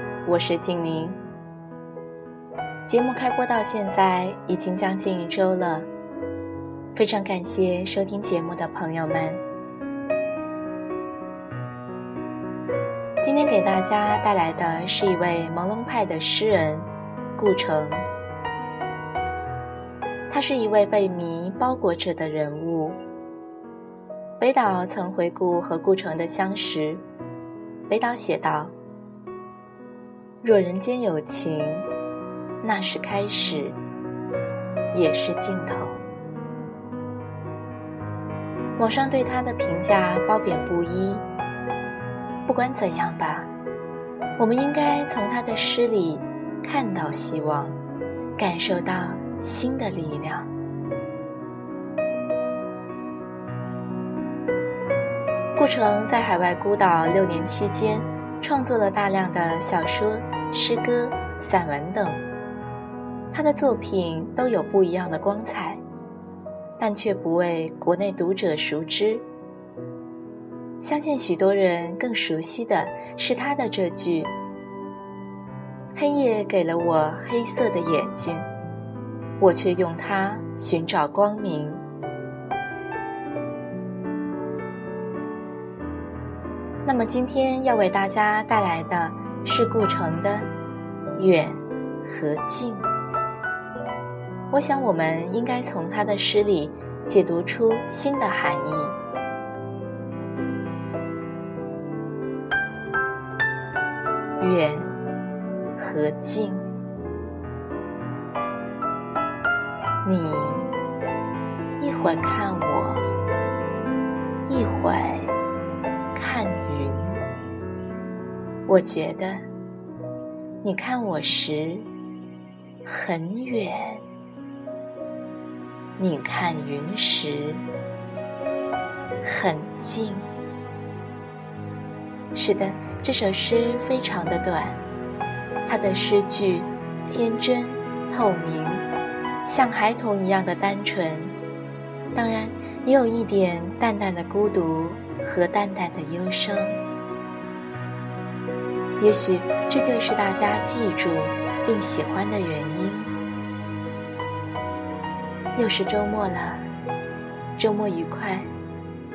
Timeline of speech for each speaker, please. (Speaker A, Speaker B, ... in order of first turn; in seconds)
Speaker A: 0.2-1.2, 2.9-5.9, 6.9-9.4, 13.2-18.1, 20.3-23.0, 24.4-27.0, 27.9-28.7, 30.4-31.9, 32.6-33.8, 34.9-36.0, 38.8-41.2, 42.5-43.5, 44.4-47.8, 48.4-50.5, 55.5-62.2, 63.3-65.8, 66.8-69.2, 70.8-74.3, 75.9-78.5, 79.4-81.8, 86.8-90.5, 91.2-92.9, 94.5-99.0, 104.4-105.0, 105.8-106.7, 110.0-110.7, 111.8-113.1, 114.5-115.4, 116.1-117.2, 118.7-119.5, 120.6-121.9, 122.8-124.0, 126.0-127.6, 129.2-130.3, 132.3-134.8, 135.7-138.8, 139.4-141.3, 142.1-146.8, 149.0-153.1, 155.5-156.7, 157.6-158.5